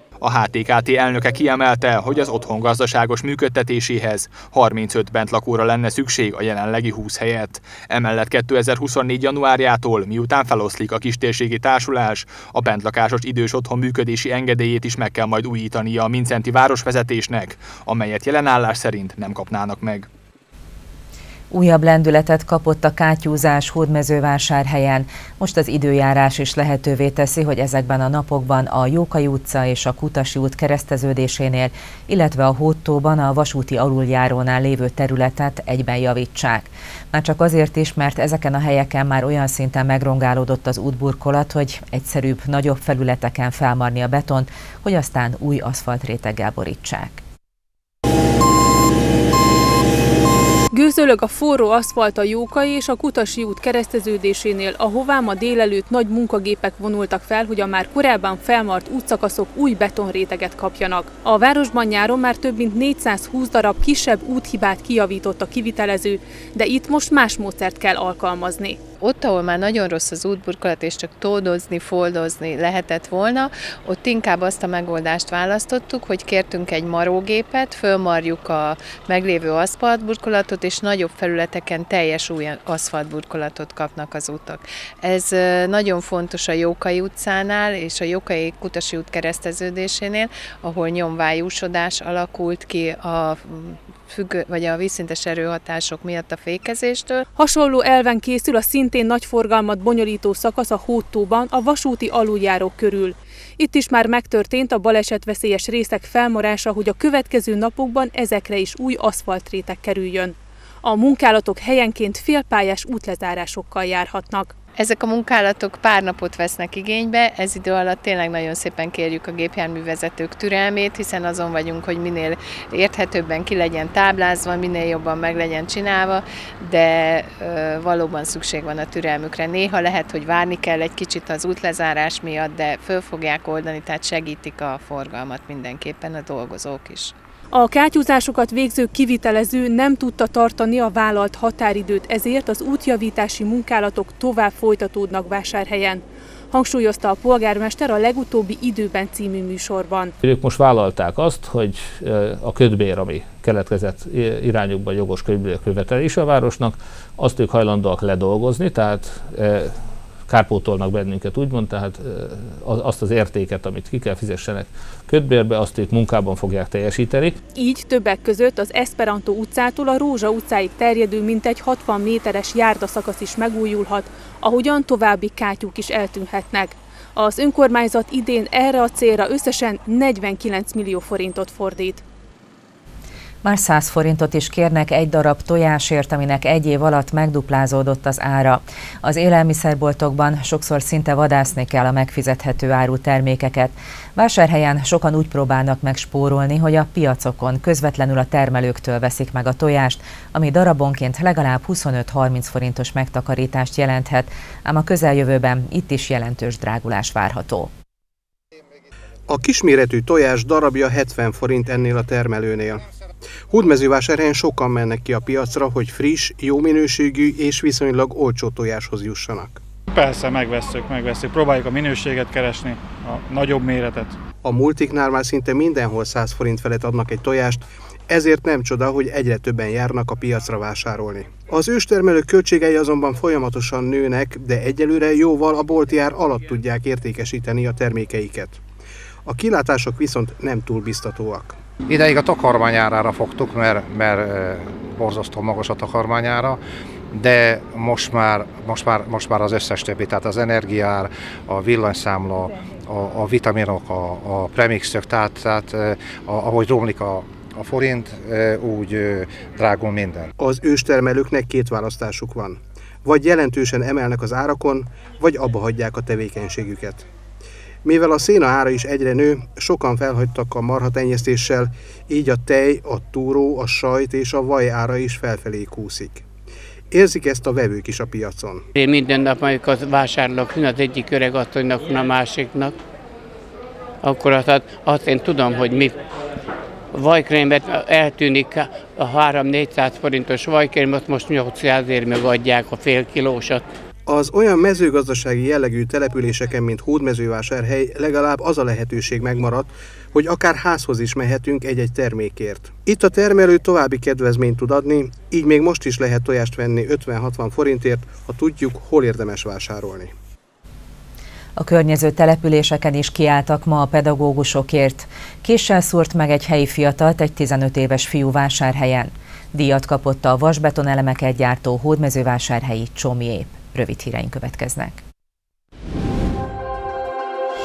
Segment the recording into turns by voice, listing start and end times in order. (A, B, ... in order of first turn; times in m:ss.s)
0:00.2-0:20.0 A
0:21.5-0:47.2 B
0:50.7-1:08.8 C
1:09.0-1:37.1 D
1:37.3-1:54.5 C
1:54.8-2:17.1 D
2:17.5-2:30.1 C
2:30.2-2:47.4 E
2:47.5-3:02.0 C
3:03.4-3:27.7 B
3:29.3-3:32.8 F
3:33.5-3:39.6 F
3:39.9-3:44.1 G
3:44.4-3:58.6 F
3:59.2-4:01.6 F
4:01.9-4:06.6 H
4:07.1-4:20.3 H
4:20.4-4:27.0 F
4:27.8-4:36.2 F
4:36.9-4:38.6 F
4:38.8-4:42.7 I
4:44.0-4:45.9 I
4:46.9-4:53.6 I
4:54.0-5:10.1 F
5:11.6-5:25.0 B